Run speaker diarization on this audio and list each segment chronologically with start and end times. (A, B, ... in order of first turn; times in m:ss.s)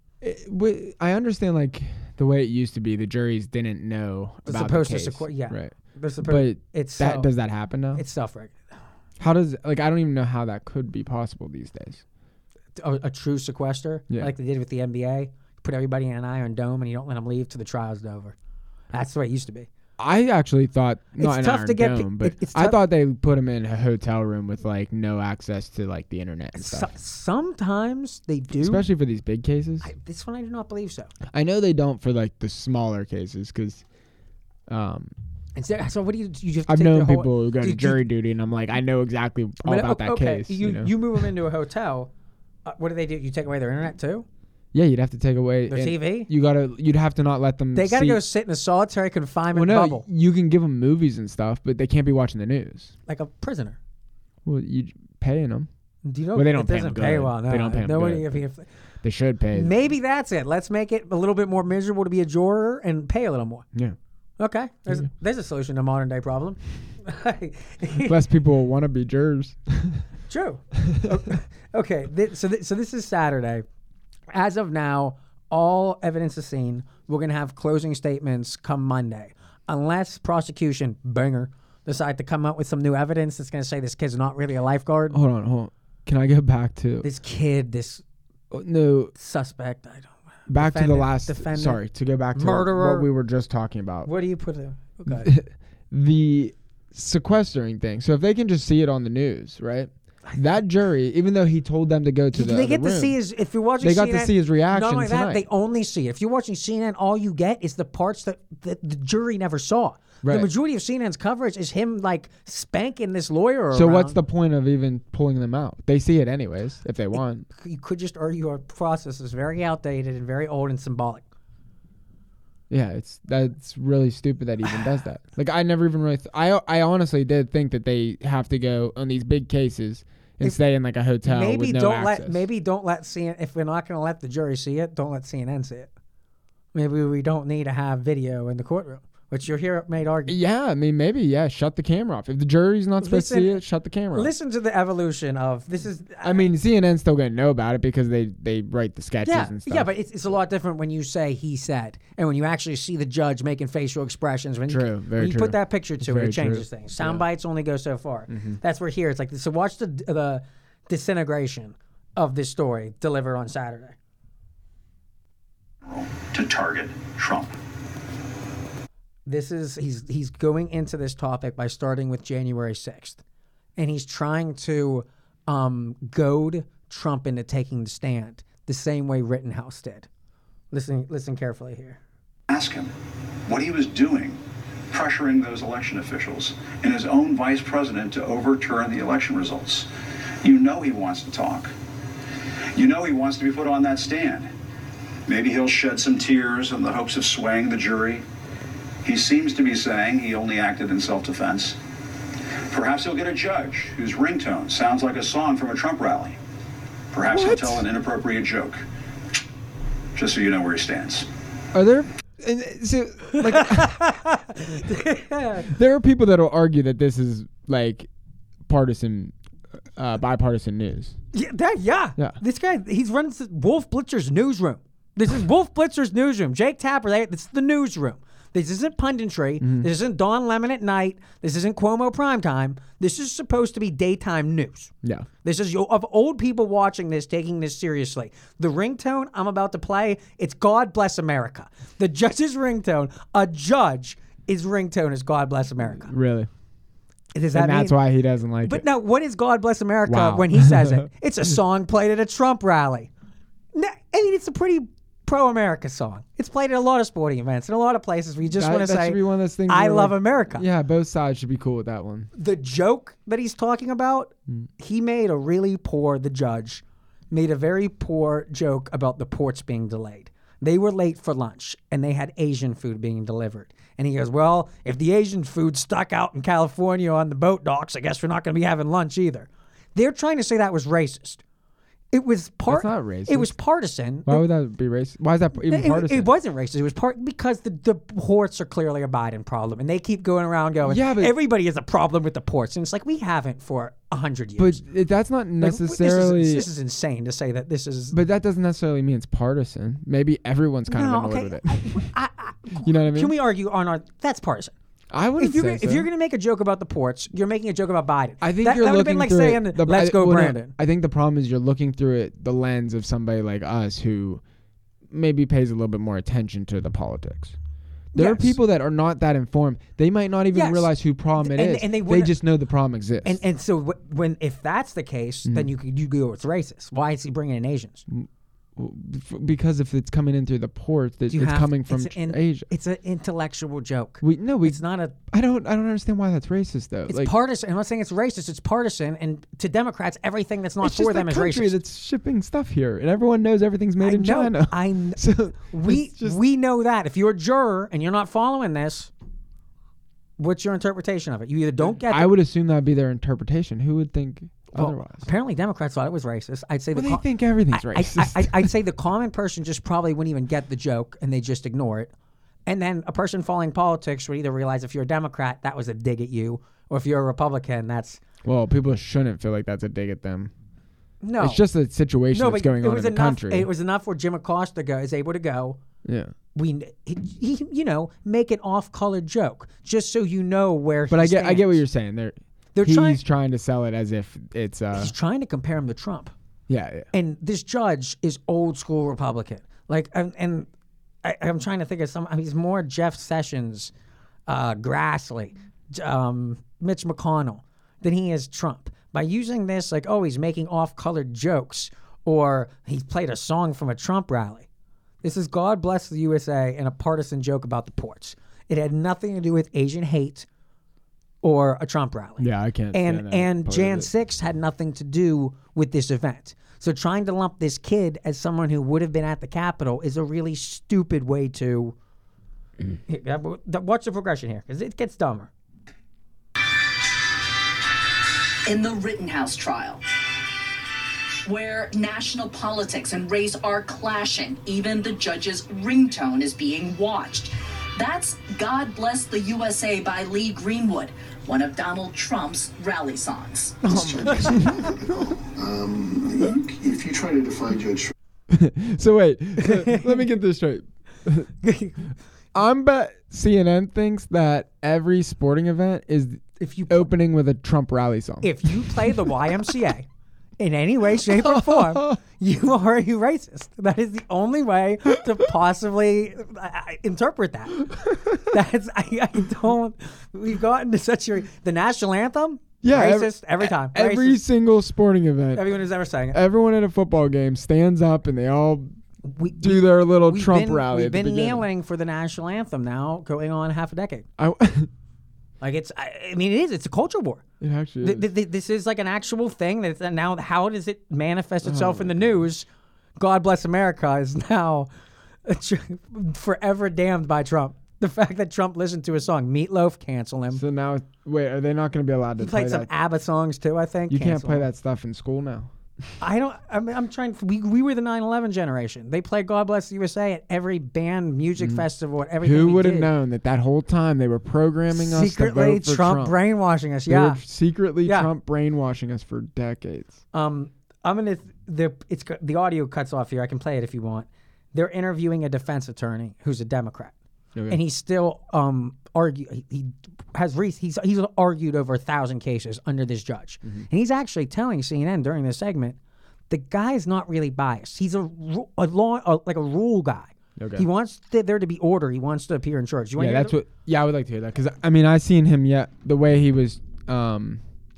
0:00.2-0:08.0 A
0:04.4-0:07.3 B
0:07.9-0:08.7 B
0:09.2-0:12.0 A
0:12.8-0:18.3 B
0:18.9-0:19.7 B
0:20.0-0:26.9 A
0:21.2-0:22.8 B
0:26.5-0:28.8 B
0:28.5-0:29.9 A
0:29.8-0:31.1 B
0:31.3-0:33.8 A
0:34.7-0:35.1 A
0:35.6-0:38.0 B
0:36.7-0:41.3 A
0:39.6-0:42.1 B
0:42.6-0:44.2 B
0:44.7-0:48.2 A
0:45.7-0:46.3 B
0:47.7-0:50.0 B
0:49.5-0:52.9 A
0:53.1-0:53.8 B
0:54.4-0:55.7 A
0:56.0-0:58.7 B
0:56.3-0:58.4 A
0:59.0-0:59.7 A
0:59.5-1:03.7 B
1:04.4-1:08.1 B
1:08.0-1:10.0 A
1:10.3-1:13.6 B
1:14.3-1:25.2 B
1:25.1-1:27.0 A
1:27.0-1:28.0 B
1:28.5-1:29.1 A
1:29.1-1:31.8 B
1:30.5-1:34.1 A
1:32.3-1:33.1 B
1:34.0-1:35.3 B
1:35.1-1:43.2 A
1:42.3-1:54.2 B
1:43.8-1:45.4 A
1:50.2-1:50.5 A
1:53.7-1:57.4 A
1:57.5-2:01.2 B
2:02.7-2:12.4 A
2:11.2-2:15.9 B
2:16.7-2:20.3 B
2:20.3-2:24.3 A
2:23.0-2:26.5 B
2:26.2-2:29.9 A
2:29.2-2:44.0 B
2:34.7-2:37.2 A
2:38.3-2:38.6 A
2:45.8-2:47.5 C
2:49.3-2:53.2 B
2:53.8-3:00.1 B
3:00.7-3:02.0 B
3:02.5-3:02.9 C
3:03.5-3:04.4 C
3:04.9-3:09.9 C
3:10.4-3:11.7 C
3:12.7-3:14.5 C
3:15.3-3:18.2 C
3:19.0-3:21.8 C
3:22.7-3:26.4 C
3:27.1-3:28.8 C
3:27.3-3:27.8 A
3:30.2-3:31.3 C
3:31.7-3:34.0 A
3:33.3-3:35.7 B
3:35.6-3:38.1 A
3:38.6-3:39.3 A
3:39.9-3:41.2 A
3:41.3-3:54.9 B
3:49.6-3:49.9 A
3:55.4-4:06.1 B
4:06.0-4:06.5 A
4:07.3-4:08.0 B
4:07.5-4:08.8 A
4:08.6-4:13.1 B
4:10.0-4:11.1 A
4:13.7-4:20.6 B
4:18.6-4:22.3 A
4:22.3-4:41.4 B
4:42.1-4:44.4 B
4:42.7-4:43.5 A
4:44.2-4:46.3 A
4:45.6-4:54.8 B
4:50.8-4:51.3 A
4:54.6-4:56.7 A
4:55.6-4:58.2 B
4:58.1-5:02.1 A
5:00.9-5:04.7 B
5:02.8-5:03.3 A
5:05.1-5:06.1 A
5:05.4-5:10.7 B
5:08.4-5:14.4 A
5:15.1-5:17.6 A
5:18.1-5:23.4 A
5:18.1-5:18.6 B
5:20.5-5:22.4 B
5:23.2-5:28.0 B
5:25.4-5:25.7 A
5:28.1-5:32.7 A
5:31.3-5:35.1 B
5:34.2-5:37.3 A
5:37.1-5:41.7 B
5:40.8-5:46.4 A
5:44.0-5:49.1 B
5:50.4-5:52.3 B
5:51.8-5:55.3 A
5:54.7-6:02.1 B
5:56.9-5:58.7 A
6:02.6-6:08.2 B
6:08.4-6:10.5 A
6:11.2-6:11.6 B
6:11.4-6:13.7 A
6:12.3-6:15.8 B
6:16.0-6:16.3 A
6:16.5-6:21.8 B
6:21.1-6:25.1 A
6:22.7-6:23.2 B
6:24.9-6:26.3 B
6:26.7-6:27.1 A
6:27.1-6:30.7 B
6:31.2-6:33.9 B
6:34.5-6:44.7 B
6:45.2-6:50.5 B
6:51.4-7:01.9 B
6:52.4-6:54.1 A
7:03.1-7:05.5 B
7:08.7-7:10.0 D
7:11.4-7:23.8 D
7:23.8-7:24.8 B
7:23.8-7:28.1 E
7:23.9-7:24.8 A
7:28.5-7:31.5 A
7:29.6-7:30.0 B
7:31.6-7:32.1 B
7:32.5-7:39.5 A
7:36.6-7:37.1 B
7:38.4-7:40.1 B
7:40.6-7:54.4 B
7:41.2-7:42.2 A
7:48.0-7:48.5 A
7:52.8-7:55.8 A
7:55.5-7:56.4 B
7:56.3-7:58.9 A
7:59.2-8:04.3 B
7:59.6-8:01.6 A
8:04.4-8:04.9 A
8:05.6-8:07.4 B
8:07.6-8:08.3 A
8:08.0-8:12.6 B
8:11.6-8:12.4 A
8:13.2-8:14.9 B
8:15.4-8:20.6 B
8:20.5-8:22.9 A
8:22.4-8:24.6 B
8:24.1-8:25.7 A
8:26.2-8:33.1 B
8:31.6-8:31.8 A
8:32.4-8:36.4 A
8:34.9-8:37.4 B
8:37.1-8:40.2 A
8:38.0-8:38.3 B
8:40.3-8:47.1 B
8:47.7-8:56.0 B
8:56.5-9:03.6 B
9:00.6-9:00.9 A
9:03.2-9:07.6 A